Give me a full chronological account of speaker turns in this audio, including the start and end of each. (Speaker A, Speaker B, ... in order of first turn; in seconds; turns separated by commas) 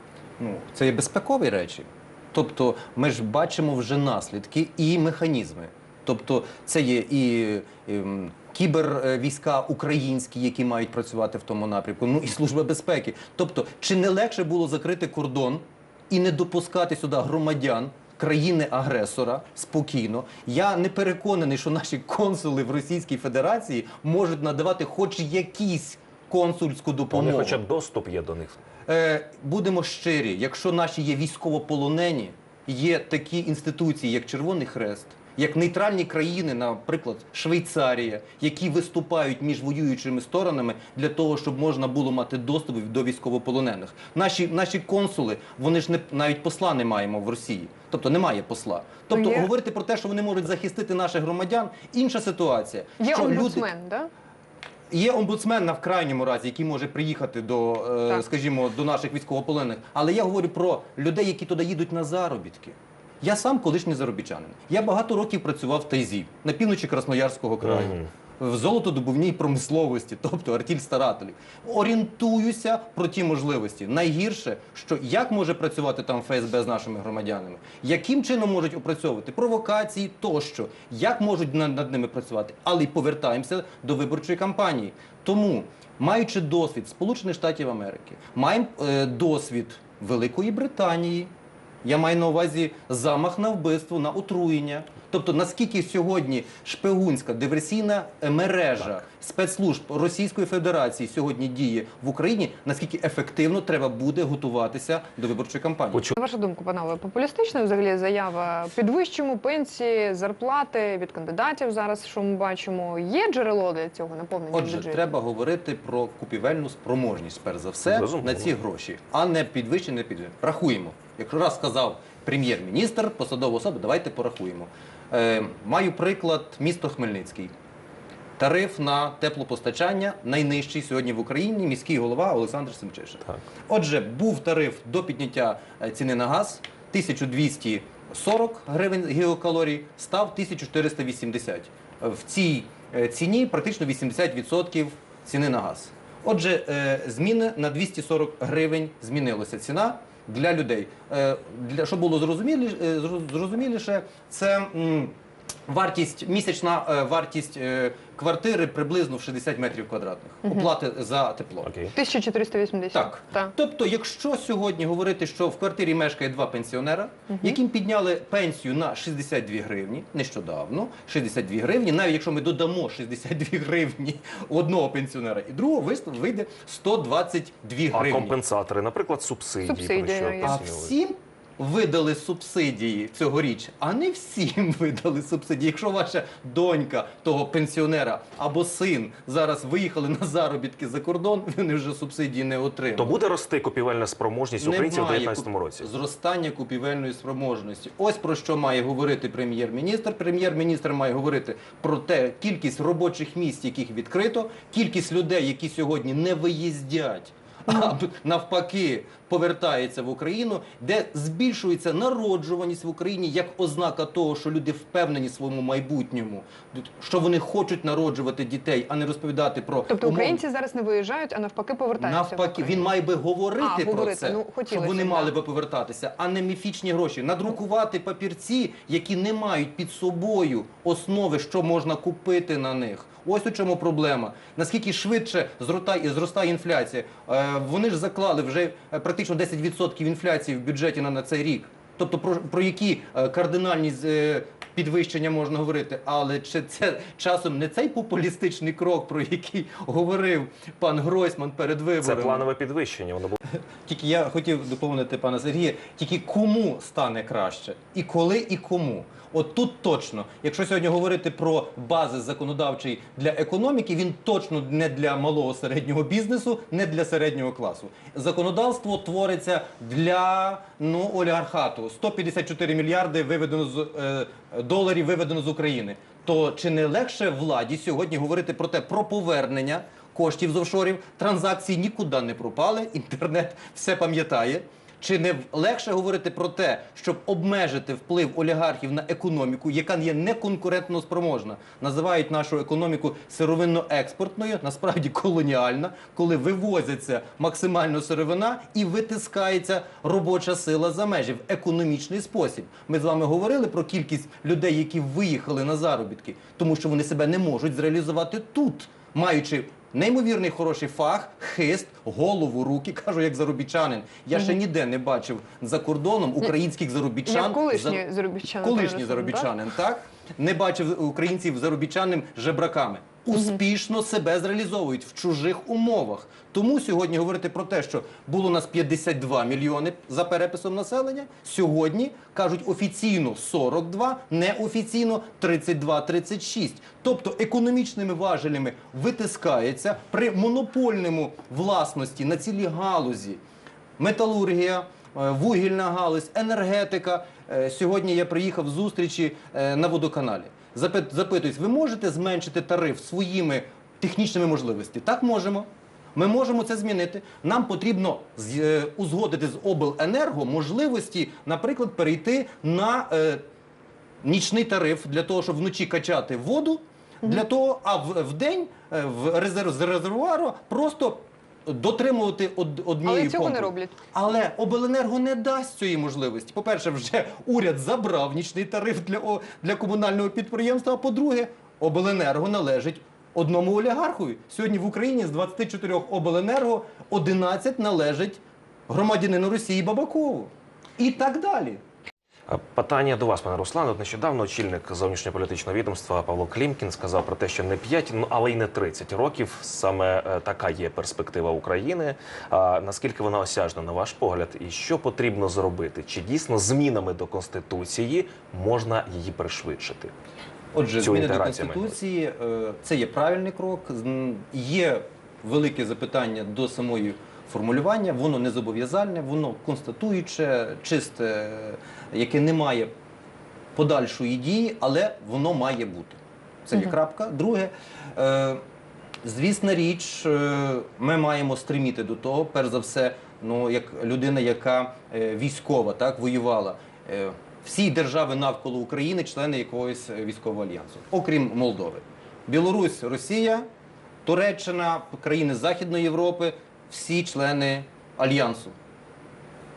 Speaker A: 0.4-27.6, Speaker B: 27.1-28.6, Speaker A: 28.9-53.7, Speaker C: 49.1-49.5, Speaker C: 53.0-54.1, Speaker A: 54.9-91.3, Speaker B: 67.6-68.1, Speaker A: 91.8-106.1, Speaker C: 106.2-115.1, Speaker A: 114.5-127.5, Speaker B: 117.8-118.5, Speaker A: 128.4-155.1, Speaker A: 155.7-161.7, Speaker B: 161.6-161.9, Speaker C: 161.9-163.5, Speaker A: 162.9-178.4, Speaker C: 167.3-167.6, Speaker B: 177.9-180.9, Speaker C: 179.6-180.6, Speaker A: 180.4-193.2, Speaker B: 192.9-195.9, Speaker A: 194.6-220.4, Speaker C: 219.9-222.9, Speaker A: 222.0-252.4, Speaker C: 223.6-225.3, Speaker B: 252.0-253.4, Speaker A: 253.9-318.0, Speaker C: 317.2-319.6, Speaker A: 318.6-343.4, Speaker C: 323.3-323.6, Speaker A: 344.0-363.4, Speaker A: 364.2-391.8, Speaker C: 373.0-373.9, Speaker B: 392.5-410.1, Speaker A: 410.7-422.9, Speaker B: 411.0-411.9, Speaker A: 423.8-428.6, Speaker A: 429.2-443.7, Speaker A: 444.2-448.8